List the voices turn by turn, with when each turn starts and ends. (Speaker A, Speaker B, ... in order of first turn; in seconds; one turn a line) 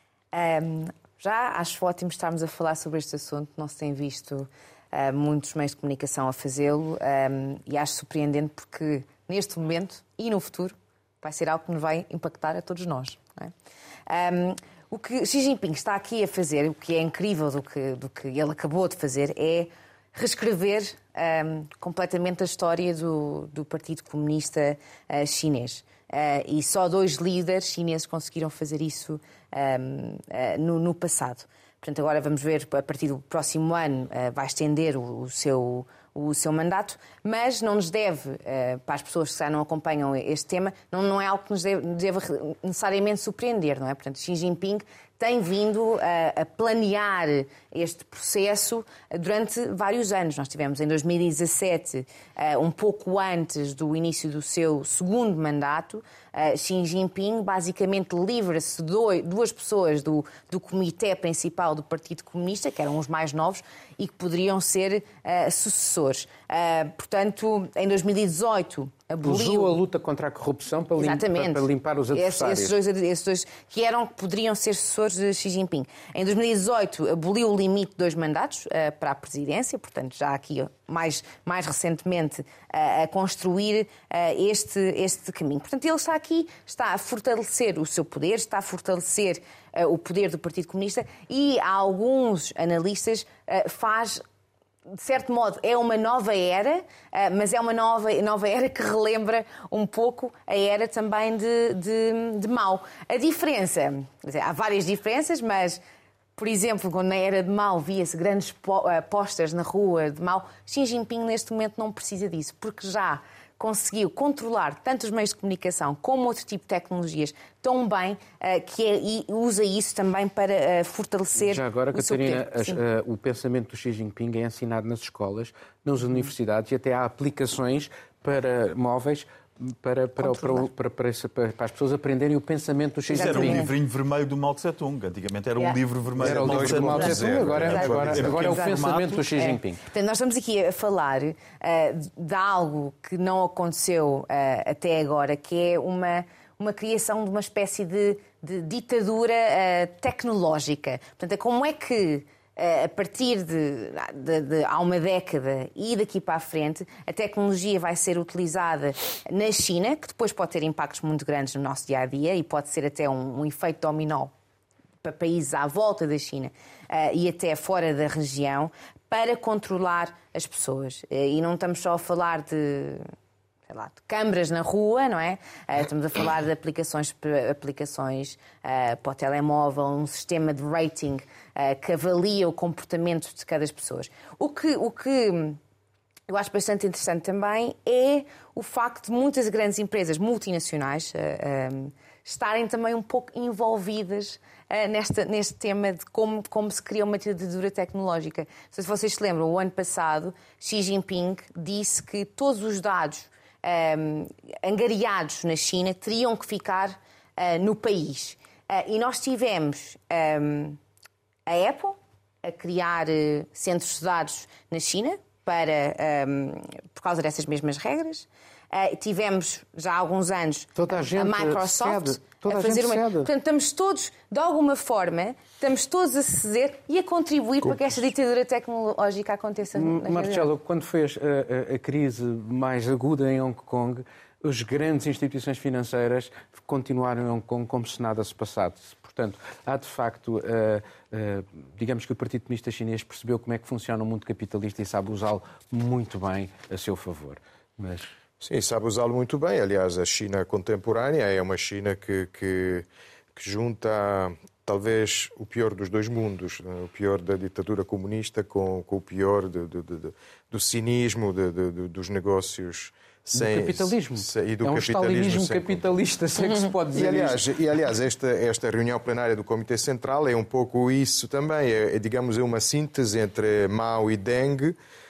Speaker A: 0.3-13.5
Speaker A: 14.1-69.8
Speaker B: 69.2-72.7
Speaker A: 71.0-94.2
Speaker A: 94.9-105.8
Speaker A: 106.4-122.8
Speaker B: 121.4-133.7
Speaker A: 130.2-130.6
Speaker A: 133.1-133.7
Speaker C: 133.1-139.2
Speaker D: 136.2-138.5
Speaker B: 136.2-139.8
Speaker A: 137.7-164.3
Speaker A: 165.0-173.1
Speaker A: 173.7-185.6
Speaker A: 186.3-210.8
Speaker A: 211.5-230.5
Speaker B: 220.8-223.3
Speaker B: 229.8-248.1
Speaker D: 248.4-265.9
Speaker B: 263.3-267.4
Speaker D: 266.9-274.8